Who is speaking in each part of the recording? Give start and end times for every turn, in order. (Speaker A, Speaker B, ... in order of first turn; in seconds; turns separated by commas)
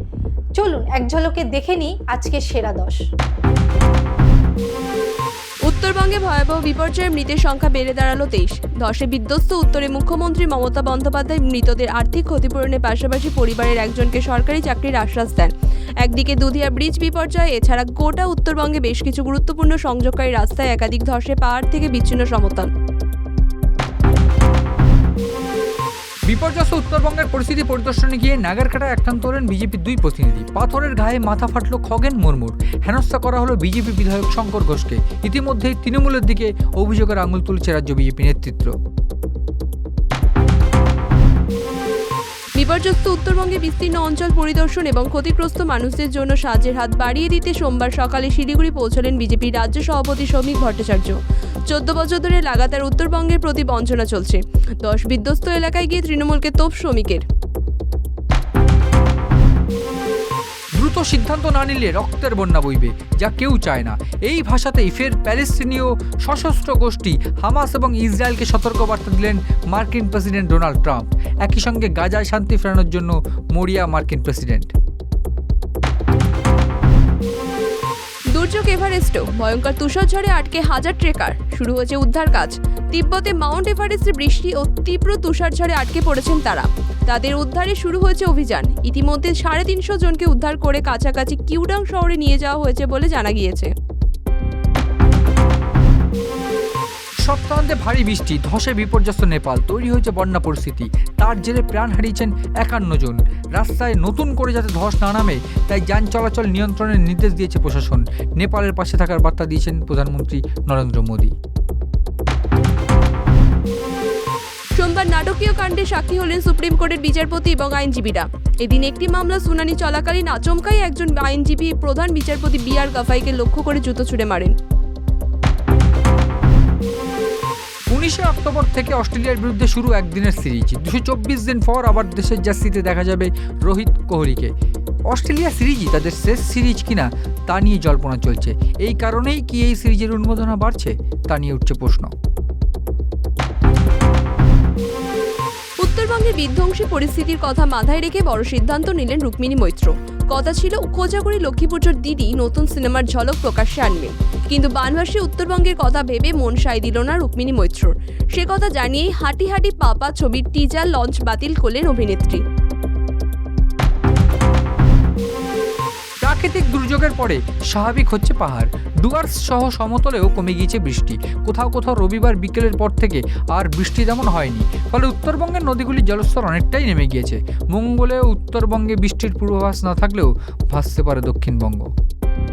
Speaker A: 0.6-3.0, Speaker B: 5.6-22.7, Speaker C: 26.3-38.7, Speaker B: 42.5-51.1, Speaker B: 51.7-57.2, Speaker C: 60.7-74.7, Speaker B: 78.3-93.7, Speaker C: 97.2-111.3, Speaker B: 114.7-124.5, Speaker C: 127.9-134.5, Speaker C: 135.1-142.1, Speaker B: 145.8-162.4, Speaker C: 166.2-181.9